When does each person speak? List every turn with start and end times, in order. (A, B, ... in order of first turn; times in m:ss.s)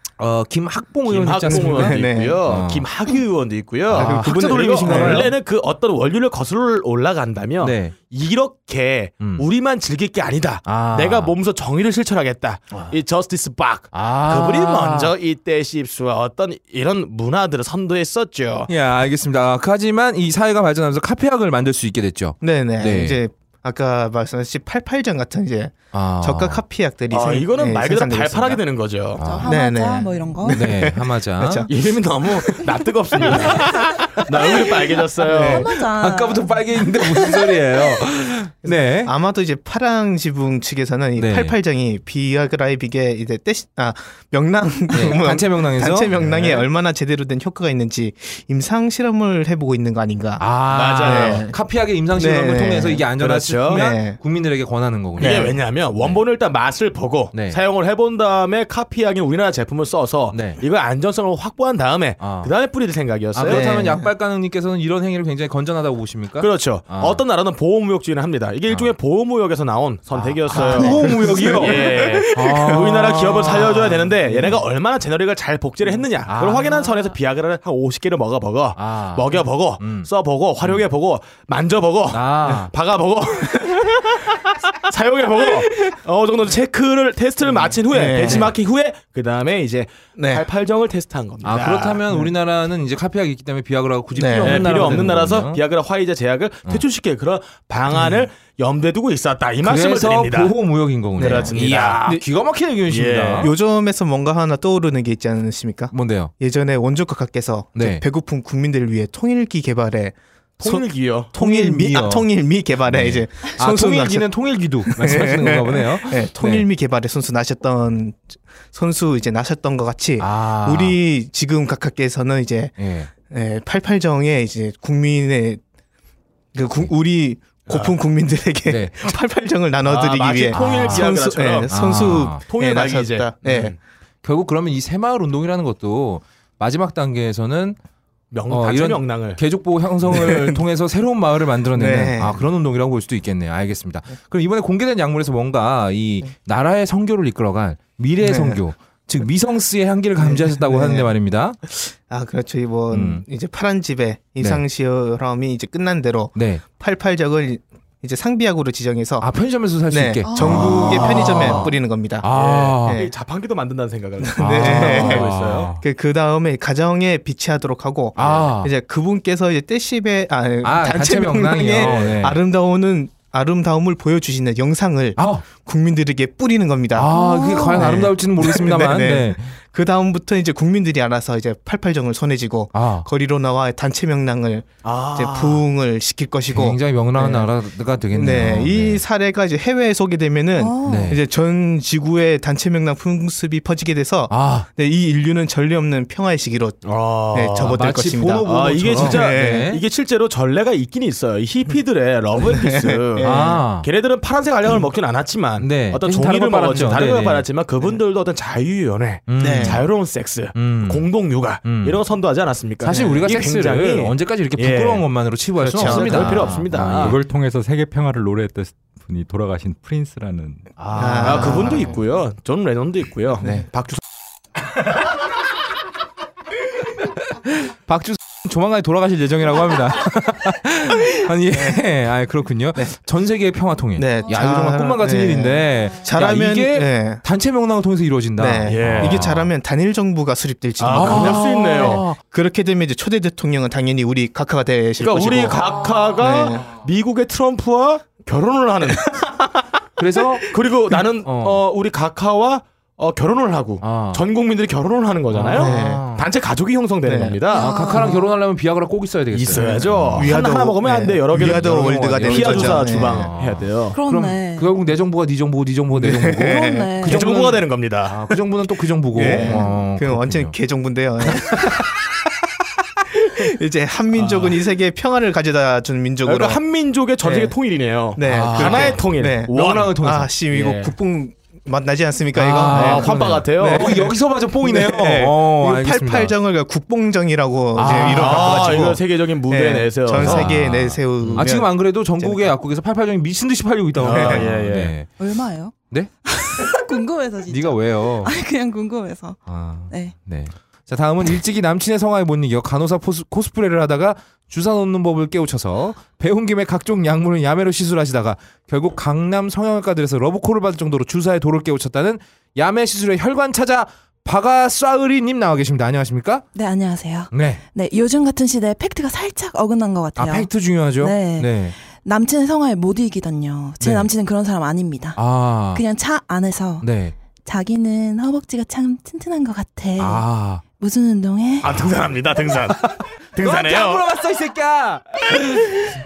0:00.2-0:02.9 A
0:01.1-0:18.7 B
0:01.4-0:02.4 C
0:03.9-0:05.3 A
0:03.9-0:05.3 C
0:07.6-0:07.9 A
0:09.2-0:09.4 A
0:10.6-0:11.4 A
0:13.9-0:15.1 A
0:18.7-0:23.2 A
0:22.4-0:28.6 C
0:25.9-0:26.6 A
0:27.1-0:29.2 B
0:29.2-0:29.5 A
0:29.2-0:30.6 D
0:29.4-0:31.7 C
0:30.5-0:31.7 A
0:31.7-0:35.7 B
0:33.2-0:33.6 C
0:33.3-0:34.6 A
0:35.2-0:35.7 C
0:35.5-0:37.2 D
0:35.8-0:39.1 A
0:38.6-0:50.5 C
0:41.2-0:41.6 A
0:44.9-0:46.6 A
0:50.4-0:56.2 A
0:50.7-0:51.4 B
0:51.0-0:51.6 C
0:52.1-0:53.1 C
0:53.2-0:53.9 B
0:53.7-0:54.2 C
0:55.2-1:03.6 B
0:55.2-0:55.6 C
0:57.3-0:57.6 A
1:00.3-1:00.6 A
1:02.2-1:02.5 A
1:03.3-1:07.2 A
1:03.5-1:04.1 C
1:06.4-1:24.2 B
1:08.7-1:08.9 A
1:10.1-1:14.6 A
1:10.5-1:13.2 C
1:16.2-1:16.9 A
1:18.7-1:20.1 A
1:20.6-1:20.9 A
1:22.1-1:22.7 A
1:24.8-1:32.0 B
1:27.9-1:28.5 C
1:28.2-1:28.5 A
1:30.2-1:30.4 C
1:31.4-1:35.6 A
1:34.2-1:35.0 C
1:34.4-1:40.6 B
1:37.9-1:38.3 C
1:39.6-1:43.5 A
1:41.2-1:42.2 B
1:41.2-1:42.2 C
1:42.9-1:43.5 B
1:43.4-1:50.8 C
1:45.9-1:46.3 A
1:47.8-1:48.0 A
1:50.6-1:51.3 B
1:51.3-1:52.3 A
1:51.3-1:54.3 C
1:52.8-1:56.7 A
1:54.9-2:05.6 C
2:00.2-2:01.0 A
2:02.8-2:03.1 A
2:06.5-2:13.8 C
2:07.7-2:07.9 B
2:08.7-2:09.0 A
2:09.8-2:13.8 B
2:10.5-2:11.1 A
2:11.7-2:12.4 A
2:14.2-2:17.8 A
2:18.3-2:19.4 B
2:18.5-2:31.6 A
2:20.1-2:20.6 C
2:21.7-2:22.4 C
2:28.2-2:28.6 C
2:30.2-2:31.1 C
2:31.7-2:39.3 C
2:32.9-2:33.2 A
2:36.4-2:36.6 A
2:39.2-2:43.0 A
2:39.9-2:42.3 C
2:40.3-2:40.6 D
2:40.6-2:41.7 B
2:42.3-2:45.7 B
2:42.8-2:43.1 C
2:44.2-2:57.2 C
2:44.4-2:45.8 A
2:48.2-2:48.7 A
2:50.6-2:52.4 A
2:51.7-2:52.2 B
2:55.2-2:55.4 A
2:56.9-2:59.6 A
2:57.1-2:57.9 D
2:57.7-3:07.5 C
3:02.7-3:03.1 A
3:04.8-3:05.6 B
3:06.5-3:09.0 A
3:08.1-3:16.8 C
3:10.6-3:11.2 D
3:10.8-3:11.2 A
3:14.3-3:14.7 A
3:16.8-3:17.8 B
3:17.3-3:19.7 C
3:17.6-3:19.8 A
3:18.4-3:35.0 B
3:22.4-3:23.6 C
3:23.2-3:23.9 A
3:25.6-3:27.5 A
3:29.3-3:29.9 A
3:29.4-3:29.8 C
3:30.6-3:31.1 A
3:31.6-3:32.0 A
3:32.8-3:37.2 A
3:32.9-3:33.2 C
3:35.6-3:36.5 C
3:35.7-3:37.2 B
3:36.9-3:40.7 E
3:40.8-3:42.0 A
3:40.9-3:42.0 C
3:41.2-3:43.6 B
3:43.4-3:44.0 C
3:47.8-3:59.5 A
3:54.0-3:57.2 C
3:58.4-4:05.6 C
3:58.6-3:59.2 B
4:00.8-4:02.0 B
4:00.9-4:02.2 A
4:05.0-4:09.4 B
4:05.2-4:05.7 A
4:06.2-4:06.7 C
4:10.0-4:10.6 A
4:10.5-4:18.1 B
4:11.2-4:11.6 A
4:13.8-4:14.2 A
4:15.3-4:16.3 A
4:15.5-4:16.1 C
4:17.0-4:17.4 C
4:17.5-4:18.3 D
4:17.5-4:20.4 A
4:19.3-4:24.0 B
4:20.2-4:23.3 C
4:21.3-4:30.5 A
4:23.9-4:24.7 D
4:25.9-4:26.9 C
4:26.4-4:27.2 D
4:27.0-4:28.3 B
4:29.1-4:32.0 C
4:29.2-4:29.6 B
4:31.2-4:31.9 A
4:33.1-4:36.6 C
4:34.2-4:34.5 B
4:36.2-4:40.0 B
4:37.2-4:37.5 C
4:38.2-4:52.5 C
4:38.2-4:40.3 A
4:40.5-4:41.0 B
4:42.3-4:46.3 A
4:42.6-4:44.1 B
4:47.7-4:48.8 A
4:47.8-4:50.6 B
4:50.1-4:55.1 A
4:54.0-4:54.9 B
4:54.1-4:54.5 C
4:55.2-4:55.8 D
4:56.2-4:59.4 D
4:57.5-4:58.3 A
4:59.5-5:16.4 A
5:16.5-5:25.2 D
5:17.3-5:17.6 A
5:20.2-5:21.8 A
5:23.8-5:24.1 A
5:25.2-5:25.8 A
5:25.7-5:26.9 D
5:26.8-5:27.1 A
5:27.4-5:30.2 D
5:30.0-5:30.6 A
5:30.8-5:31.9 D
5:31.6-5:34.0 B
5:32.9-5:35.7 A